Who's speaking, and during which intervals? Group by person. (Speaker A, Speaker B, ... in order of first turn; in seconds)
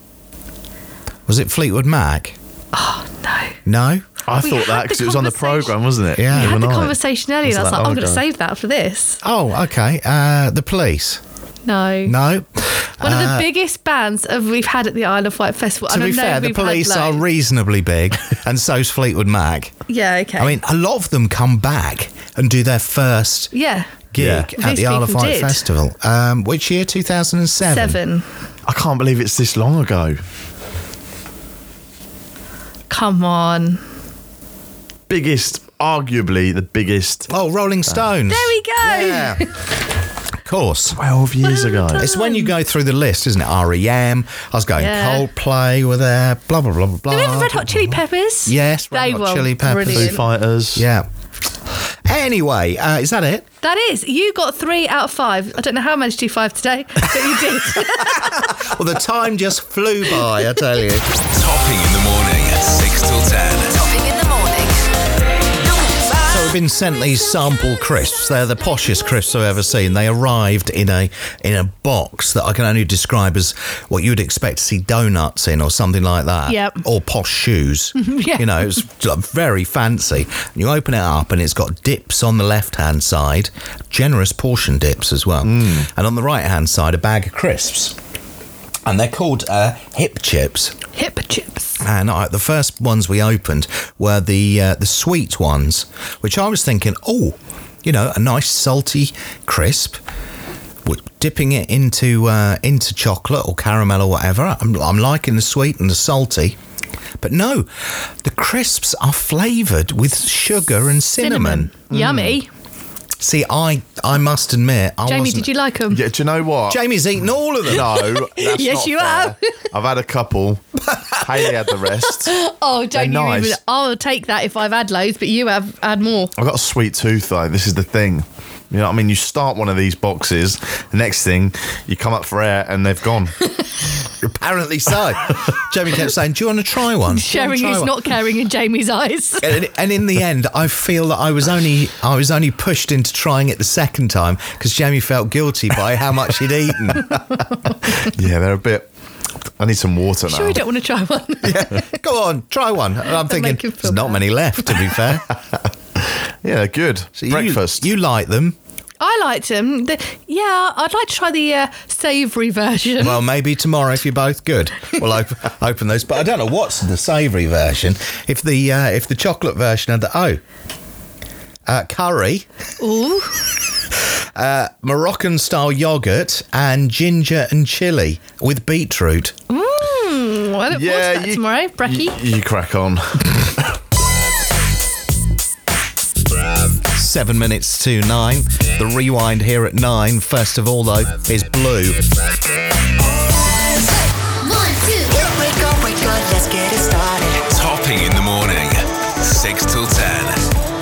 Speaker A: 1.3-2.4, 3.6-4.1, 6.2-6.8, 9.2-11.2, 12.0-13.5, 15.9-19.8, 20.4-23.5, 24.1-28.0, 37.3-39.5, 40.4-41.0, 41.9-50.2, 50.7-51.1, 52.0-53.5, 58.0-61.1, 66.2-88.0, 88.9-90.8, 91.8-100.0, 100.8-106.5, 107.2-111.7, 113.2-115.5, 116.7-118.0, 134.2-138.1, 139.4-147.2, 151.4-155.3, 157.2-158.6, 163.0-170.4, 171.7-172.4, 174.3-179.3, 186.9-192.0
Speaker B: 2.7-3.6, 4.3-9.2, 11.7-12.2, 13.0-17.2, 19.9-20.6, 23.5-23.9, 24.6-25.6, 27.6-28.3, 32.9-33.8, 38.3-39.6, 41.4-42.5, 44.8-45.2, 47.1-50.2, 53.6-58.3, 76.5-76.8, 78.0-78.8, 90.9-91.8, 111.2-112.5, 115.0-116.0, 118.1-119.4, 122.1-126.3, 133.6-133.9, 137.1-139.5, 150.3-151.9, 153.2-154.9, 159.0-163.2, 172.8-173.5, 179.5-182.2
Speaker C: 4.3-8.2, 24.1-24.5, 28.6-30.2, 35.1-37.3, 40.9-42.1, 49.9-50.9, 85.4-85.9, 111.9-112.4, 115.9-116.8, 117.6-120.6, 121.2-122.3, 122.9-123.6, 126.4-133.5, 148.0-148.9, 149.6-150.6, 156.4-157.9, 180.7-183.7
Speaker D: 61.3-63.7, 197.5-200.4
Speaker E: 63.7-64.8, 193.7-197.4